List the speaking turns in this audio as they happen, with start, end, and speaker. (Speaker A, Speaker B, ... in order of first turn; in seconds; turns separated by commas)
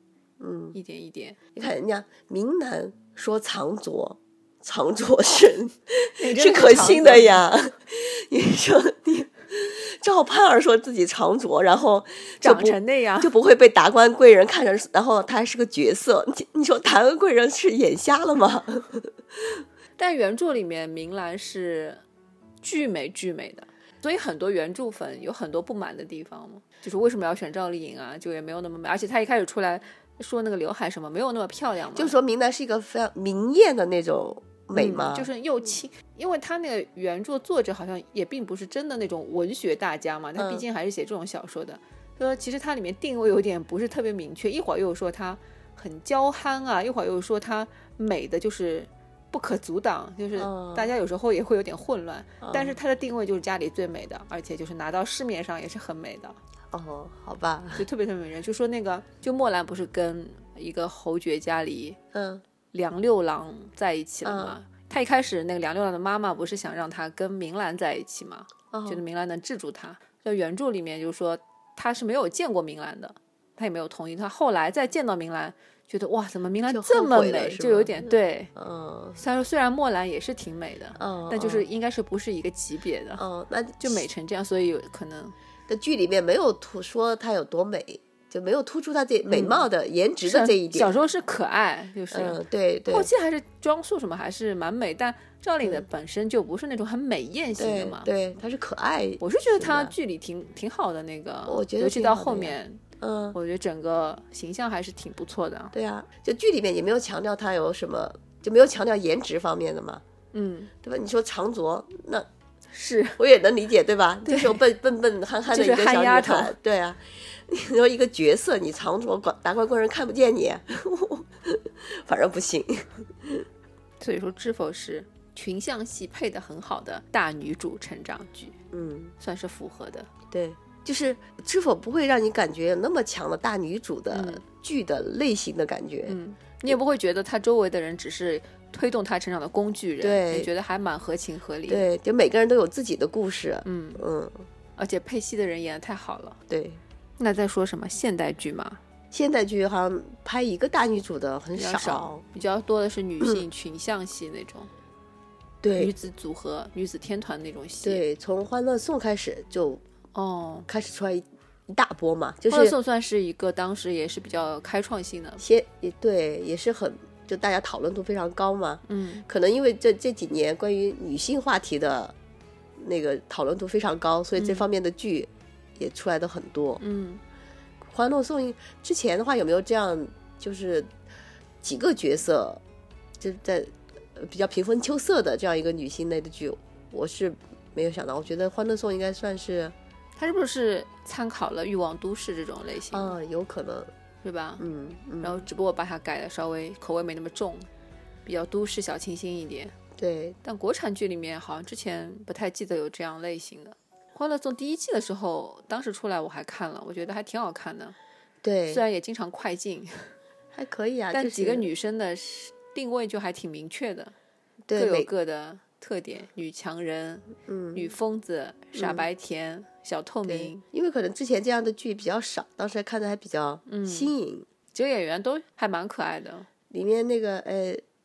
Speaker A: 0.4-0.8, Speaker B: 0.7-1.4, Speaker A: 1.5-19.6, Speaker B: 6.2-7.4, Speaker B: 12.4-13.3, Speaker B: 20.0-22.0, Speaker B: 22.6-32.1, Speaker A: 31.9-35.3, Speaker B: 34.7-56.4, Speaker A: 40.4-40.6, Speaker A: 50.4-50.9, Speaker A: 52.4-52.8, Speaker A: 56.7-57.9, Speaker B: 57.8-62.0, Speaker A: 62.1-62.4, Speaker B: 62.7-78.5, Speaker A: 64.2-64.5, Speaker A: 68.7-69.0, Speaker A: 76.7-79.2, Speaker B: 79.2-83.2, Speaker A: 81.0-81.7, Speaker A: 83.2-84.0, Speaker B: 83.8-85.3, Speaker A: 85.7-91.0, Speaker B: 89.3-89.7, Speaker B: 90.2-98.1, Speaker A: 92.1-93.1, Speaker A: 97.6-99.9, Speaker B: 99.2-102.8, Speaker A: 101.5-103.3, Speaker B: 103.3-105.7, Speaker A: 105.7-110.0, Speaker B: 110.3-110.7, Speaker A: 110.8-112.3, Speaker B: 112.7-113.2, Speaker A: 113.2-123.5, Speaker B: 114.2-114.6, Speaker B: 115.5-116.5, Speaker B: 124.0-128.6, Speaker A: 128.7-129.1, Speaker B: 129.2-130.1, Speaker A: 130.3-136.2, Speaker B: 134.1-134.4, Speaker B: 136.1-141.9, Speaker A: 140.0-140.5, Speaker A: 141.7-144.4, Speaker B: 143.6-144.0, Speaker B: 144.8-146.4, Speaker A: 146.5-146.8, Speaker B: 147.2-148.8, Speaker A: 149.1-152.2, Speaker B: 151.5-154.7, Speaker A: 155.6-155.9, Speaker B: 155.7-158.0, Speaker A: 157.8-159.8, Speaker B: 160.1-160.7, Speaker A: 160.7-162.7, Speaker B: 162.5-165.4, Speaker A: 165.4-172.1, Speaker B: 168.9-169.2, Speaker A: 172.8-176.8, Speaker B: 174.3-174.6, Speaker B: 176.8-177.2, Speaker A: 177.9-180.9, Speaker A: 181.6-182.6, Speaker A: 183.2-189.7, Speaker B: 190.2-193.2, Speaker A: 192.9-193.9, Speaker B: 194.2-194.6, Speaker A: 194.6-195.4, Speaker B: 195.2-197.7, Speaker B: 198.2-199.7, Speaker A: 200.0-200.4, Speaker B: 200.4-207.9, Speaker A: 208.4-208.8, Speaker B: 208.7-210.1, Speaker A: 210.5-211.7, Speaker B: 211.1-214.1, Speaker A: 214.7-215.1, Speaker B: 214.7-220.6, Speaker A: 217.4-217.9, Speaker A: 218.8-219.0, Speaker A: 220.2-224.4, Speaker B: 223.7-224.1, Speaker B: 224.7-226.5, Speaker A: 226.7-227.8